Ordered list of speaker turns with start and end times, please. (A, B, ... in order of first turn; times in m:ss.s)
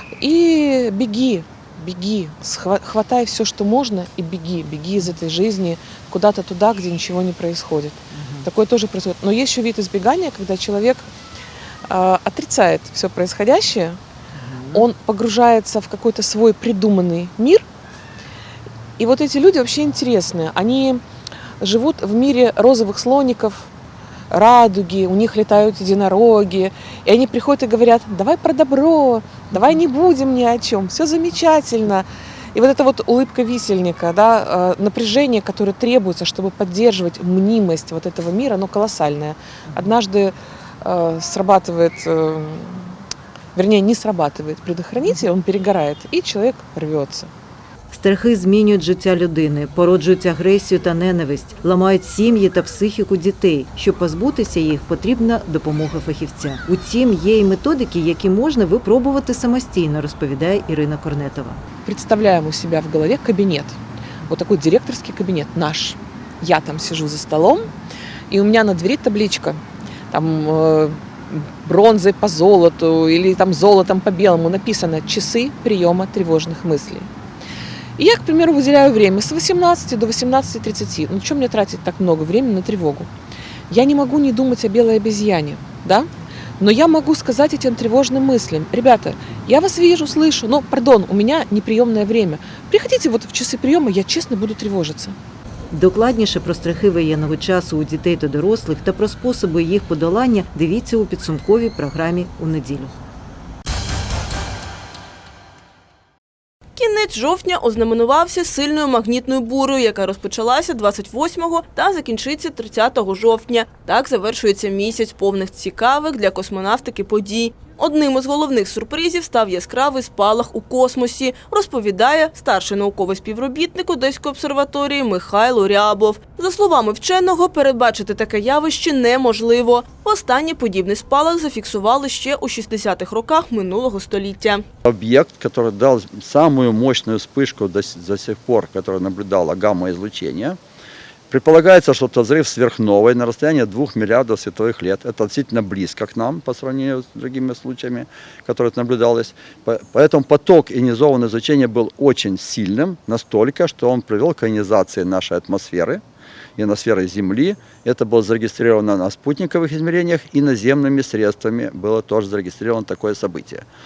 0:00.2-0:11.1 A
0:11.8-0:14.0 A
0:14.4-0:14.8 B
0:14.7-0:17.6 A
0:19.0-0:21.0 A
0:21.6-0:23.7 A
0:24.3-0:43.0 A
0:43.5-0:47.3 A
0:47.9-1:01.6 B
1:01.8-1:07.7 A
1:08.3-1:17.1 A
1:18.0-1:23.1 A
1:23.7-1:35.2 A
1:35.7-1:42.9 B
1:46.8-2:14.6 C
2:14.8-2:20.6 D
2:21.3-2:36.0 D
2:36.6-2:43.6 D